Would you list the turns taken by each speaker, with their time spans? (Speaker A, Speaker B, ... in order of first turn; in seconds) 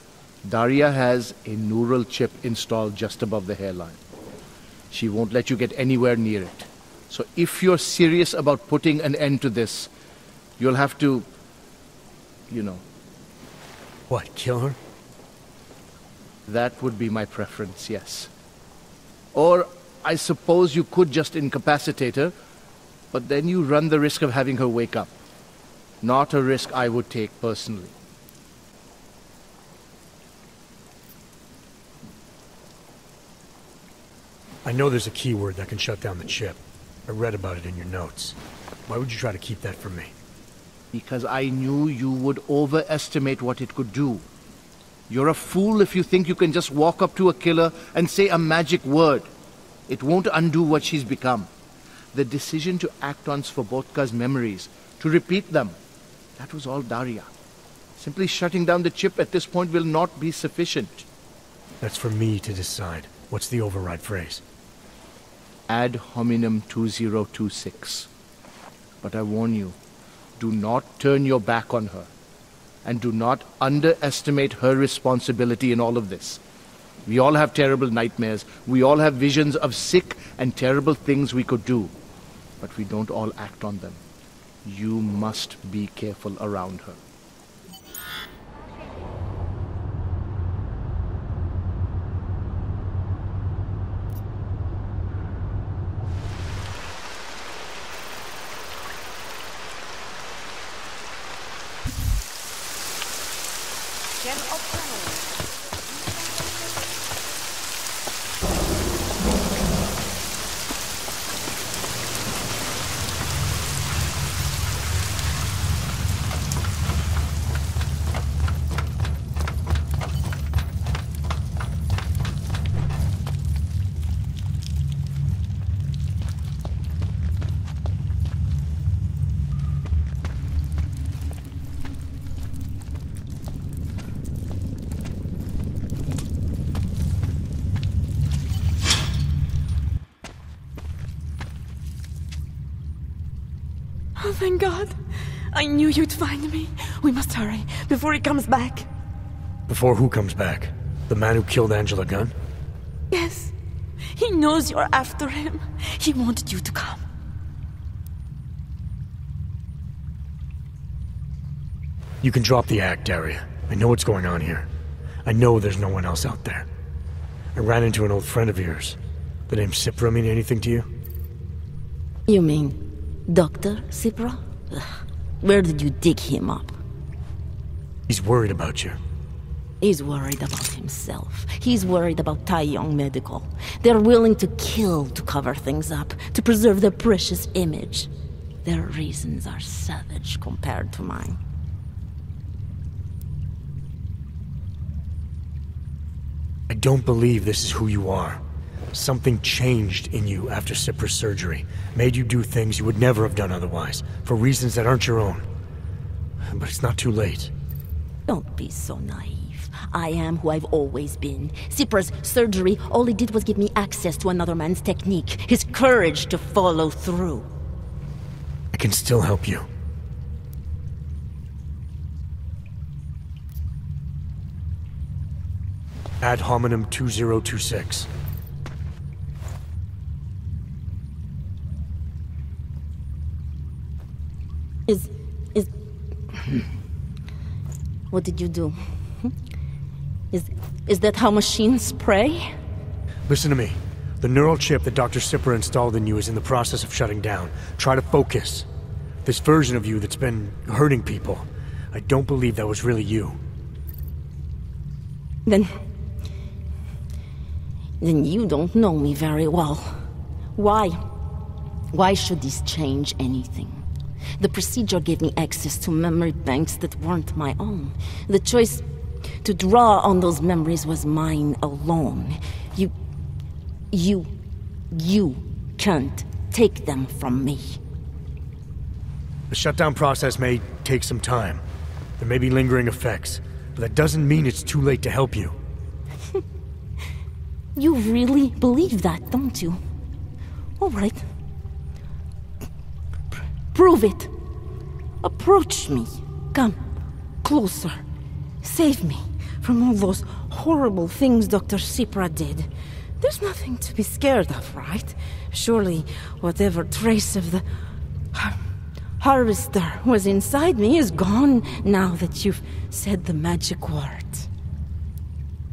Speaker A: 0.4-4.0, 4.9-9.9, 10.6-11.2, 12.5-12.8, 16.5-18.3, 19.3-22.3, 23.1-25.1, 26.0-27.9, 40.9-44.2, 45.1-49.3, 49.9-51.5, 52.1-55.8, 56.4-57.3, 58.0-61.0, 65.7-68.1, 69.0-69.8, 70.4-72.1, 72.8-76.4, 77.0-81.9, 82.6-84.0, 84.6-87.0
Speaker B: 14.1-14.8, 34.6-40.1, 61.8-64.4, 149.7-152.3, 162.2-164.7, 165.2-166.7, 167.5-169.0, 169.5-170.9, 178.1-179.0, 196.7-198.4, 198.9-205.4, 206.5-207.5, 218.7-219.7, 226.2-228.1, 243.3-248.7, 249.2-253.4, 279.5-281.6, 282.2-285.6
Speaker C: 144.2-145.0, 145.5-148.9, 153.1-153.5, 154.1-157.0, 172.3-176.8, 179.8-188.1, 188.6-191.4, 208.3-217.5, 234.9-235.7, 238.1-239.3, 240.3-242.5, 255.4-255.8, 258.0-260.0, 260.6-261.0, 261.9-263.8, 264.4-268.8, 269.4-272.9, 273.9-274.3, 274.9-277.8, 287.8-289.8, 290.8-291.2, 293.7-294.3, 295.2-296.8, 297.4-298.0, 298.6-302.7, 303.2-307.6, 308.3-308.6, 309.2-314.5